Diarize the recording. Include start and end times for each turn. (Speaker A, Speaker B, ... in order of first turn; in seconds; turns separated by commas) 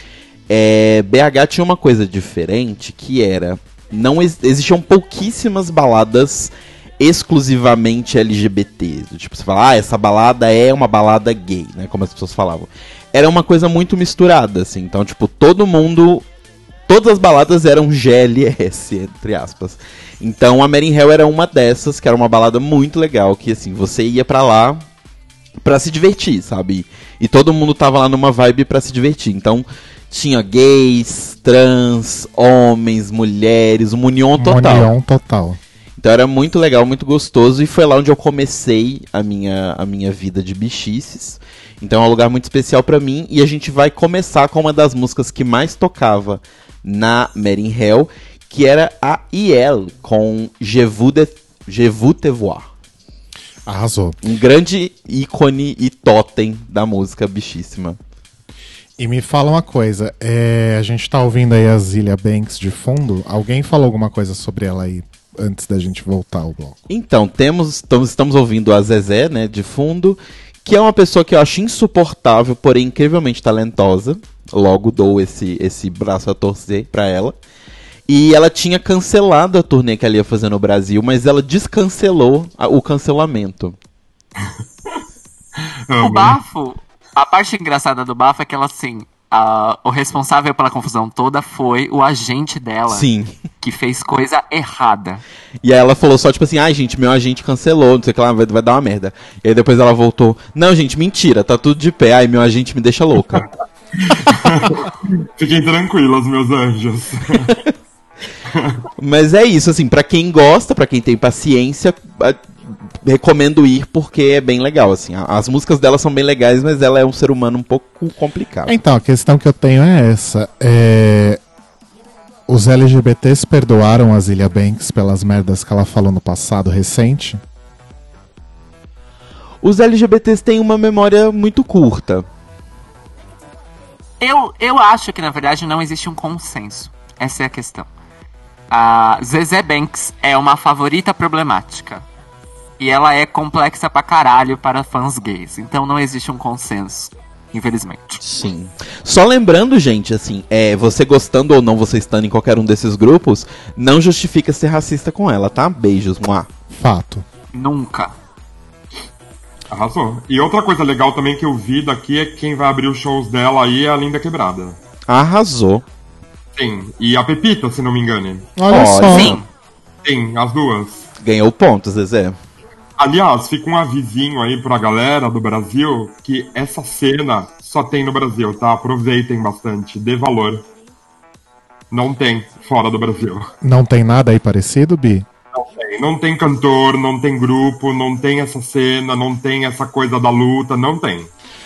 Speaker A: 0.5-16.2, Speaker A: 16.9-24.8, Speaker A: 25.6-34.9, Speaker B: 34.4-35.6, Speaker A: 36.0-52.7, Speaker B: 53.7-54.2, Speaker A: 54.2-58.0, Speaker B: 59.0-66.8, Speaker A: 66.9-77.4, Speaker A: 78.1-83.8, Speaker C: 85.9-86.4, Speaker D: 86.0-93.1, Speaker A: 92.9-93.3, Speaker D: 93.6-95.2, Speaker A: 95.6-103.5, Speaker C: 104.0-107.5, Speaker C: 108.5-108.8, Speaker A: 109.0-118.8, Speaker B: 118.7-121.4, Speaker B: 122.5-127.4, Speaker A: 129.6-132.3, Speaker D: 134.2-137.9, Speaker D: 138.7-142.1, Speaker D: 142.8-148.2, Speaker A: 148.2-156.5, Speaker B: 156.7-157.2, Speaker D: 157.5-158.2, Speaker C: 159.7-164.8, Speaker A: 165.1-165.8, Speaker C: 166.6-168.5, Speaker B: 168.6-169.4, Speaker A: 168.7-169.4, Speaker D: 169.1-169.5, Speaker C: 170.0-171.1, Speaker A: 171.2-172.4, Speaker C: 173.0-180.6, Speaker C: 181.9-183.5, Speaker B: 183.6-185.3, Speaker C: 185.6-191.3